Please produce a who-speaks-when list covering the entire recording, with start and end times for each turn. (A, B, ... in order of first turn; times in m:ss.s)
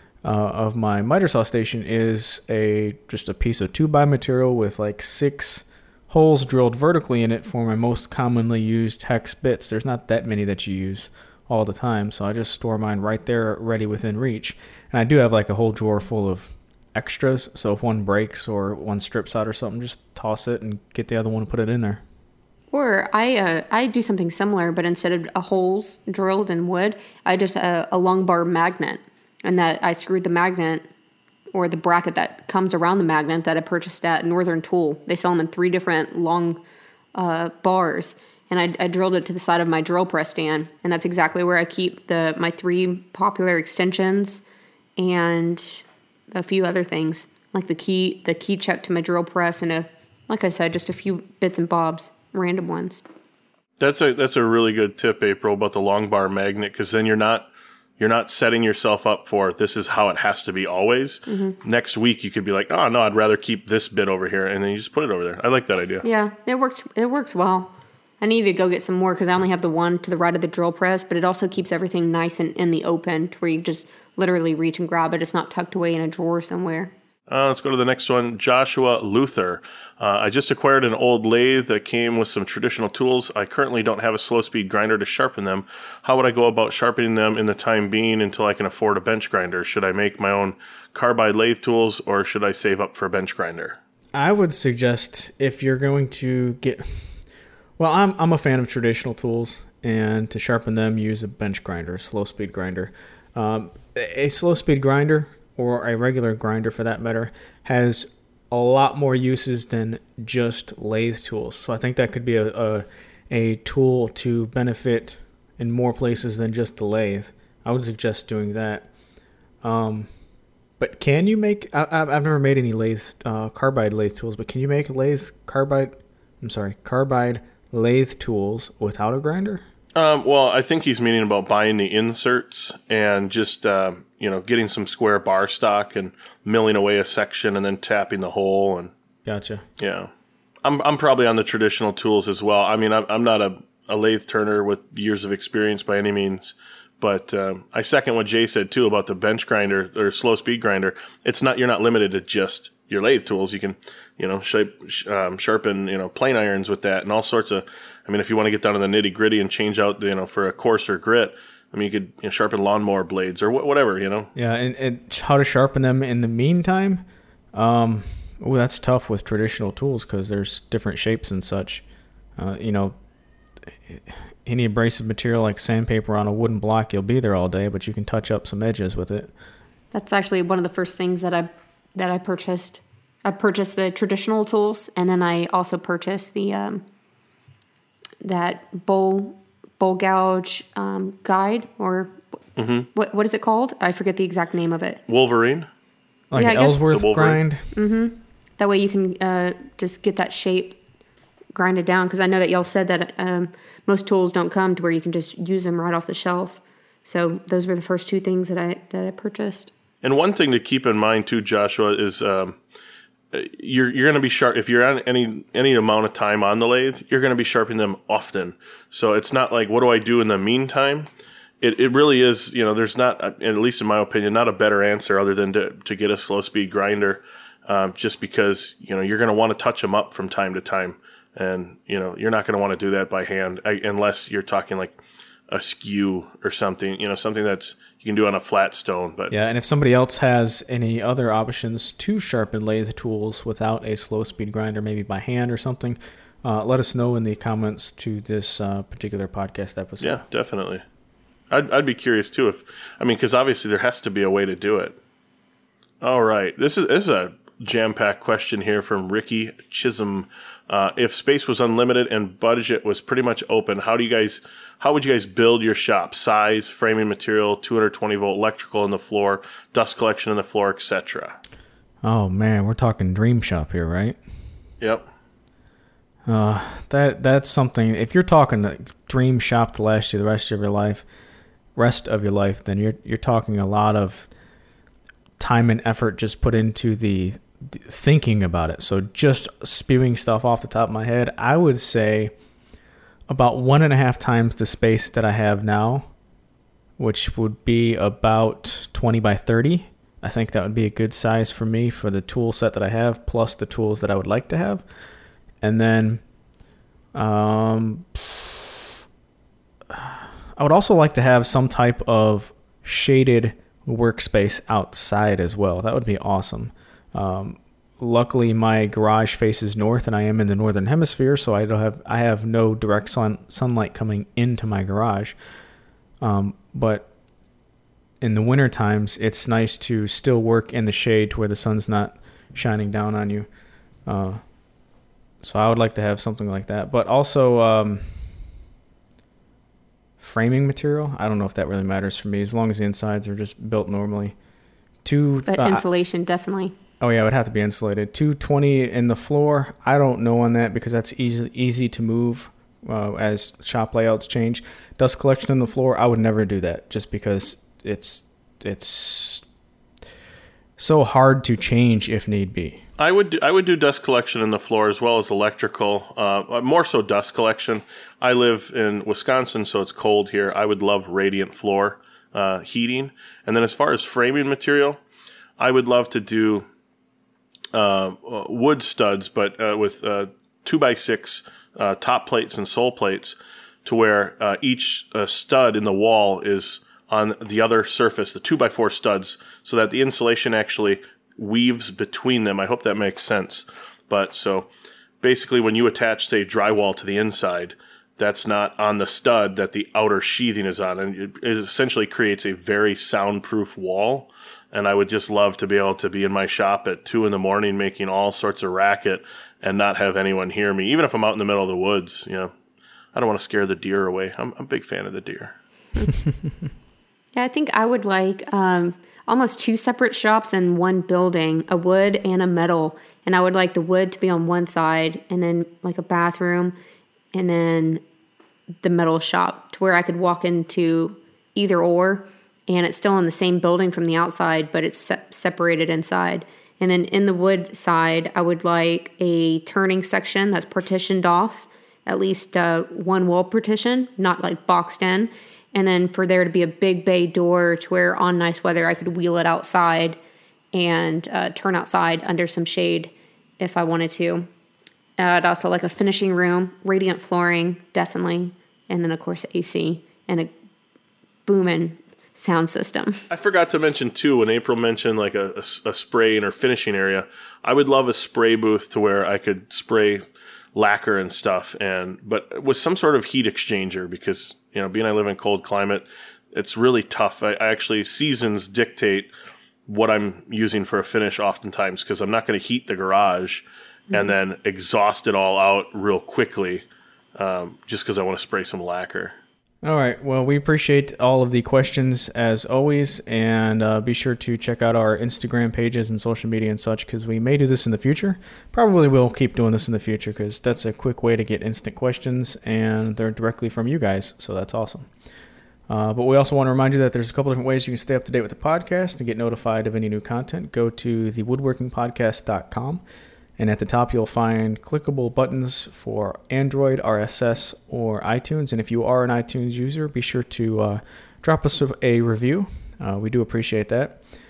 0:00.2-0:22.0 A
0:22.7-0:30.8 B
0:31.5-0:36.6 B
0:37.1-0:44.4 B
0:45.0-0:53.0 B
0:53.8-0:57.5 C
0:58.0-1:06.0 C
1:01.3-1:01.6 B
1:06.0-1:16.9 B
1:17.3-1:33.8 C
1:34.1-1:37.1 A
1:37.8-1:58.9 A
1:59.6-2:00.1 A
2:00.8-2:09.6 A
2:10.0-2:18.9 C
2:19.2-2:19.6 A
2:19.8-2:20.1 C
2:20.6-2:44.3 C
2:44.3-2:47.0 A
2:47.5-2:51.8 A
2:52.4-2:52.9 A
2:53.8-2:59.3 A
2:59.9-3:06.8 B
3:08.2-3:12.2 B
3:12.6-3:12.9 C
3:12.9-3:15.0 B
3:15.1-3:15.7 C
3:16.3-3:17.7 A
3:16.3-3:16.9 B
3:16.9-3:17.4 C
3:17.7-3:20.8 B
3:21.5-3:29.7 B
3:30.0-3:32.6 C
3:33.3-3:41.1 C
3:41.6-3:55.0 C
3:55.5-3:59.3 C
3:59.3-4:10.2 A
4:10.0-4:10.8 C
4:11.5-4:15.0 C
4:16.0-4:31.4 C
4:32.0-4:34.2 A
4:34.8-4:35.0 C
4:36.2-4:41.0 A
4:41.8-4:44.3 A
4:45.4-4:52.3 A
4:53.3-4:56.1 A
4:57.0-5:04.8 A
5:05.6-5:06.2 A
5:07.1-5:08.8 A
5:09.9-5:25.4 A
5:26.2-5:27.1 A
5:28.2-5:33.5 A
5:34.0-5:34.4 A
5:35.4-5:38.0 A
5:40.2-5:44.3 A
5:45.0-5:45.8 A
5:45.5-5:46.8 B
5:47.0-5:59.4 A
6:00.8-6:02.8 A
6:03.0-6:15.0 C
6:15.6-6:16.6 C
6:17.7-6:34.7 C
6:35.2-6:52.5 C
6:53.1-6:55.6 C
6:57.3-7:06.8 B
7:07.3-7:08.0 B
7:08.8-7:30.2 B
7:30.7-7:34.4 B
7:35.2-7:40.5 B
7:41.4-7:43.2 B
7:43.3-7:50.2 C
7:50.8-7:59.3 C
7:59.8-8:06.8 C
8:07.4-8:09.4 C
8:09.8-8:25.1 A
8:25.9-8:33.0 A
8:33.6-8:44.2 A